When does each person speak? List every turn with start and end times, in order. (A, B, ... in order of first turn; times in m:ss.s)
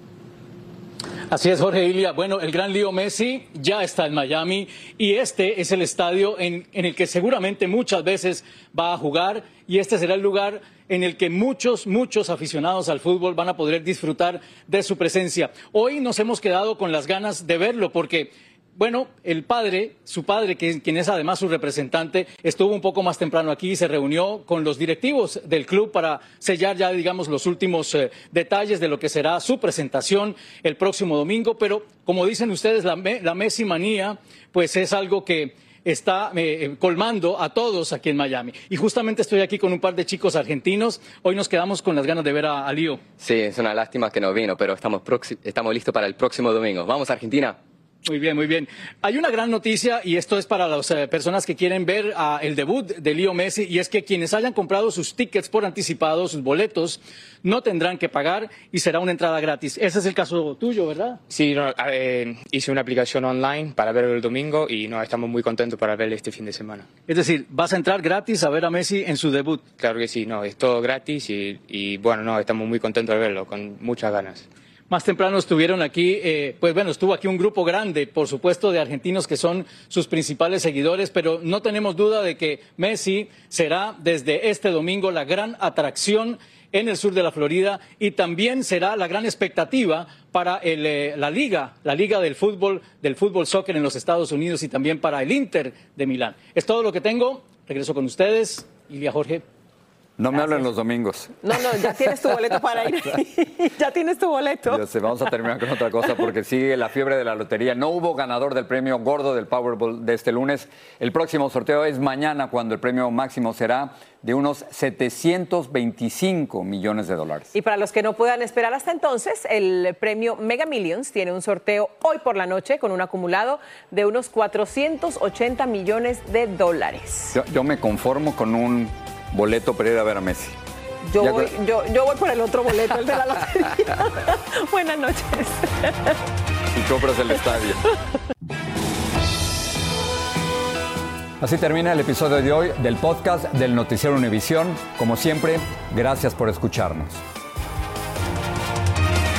0:01.3-0:43.0 A
0:43.2-0:47.6 B
0:48.0-1:01.2 A
1:01.3-1:06.9 C
1:07.1-1:09.6 A
1:09.8-1:14.5 C
1:14.9-1:39.4 A
1:40.2-1:41.3 D
1:41.4-1:44.8 E
1:44.7-1:57.5 D
1:57.5-2:07.3 E
2:07.3-2:10.5 D
2:11.0-2:16.2 E
2:11.2-2:11.4 D
2:16.8-2:17.7 D
2:21.4-2:27.2 D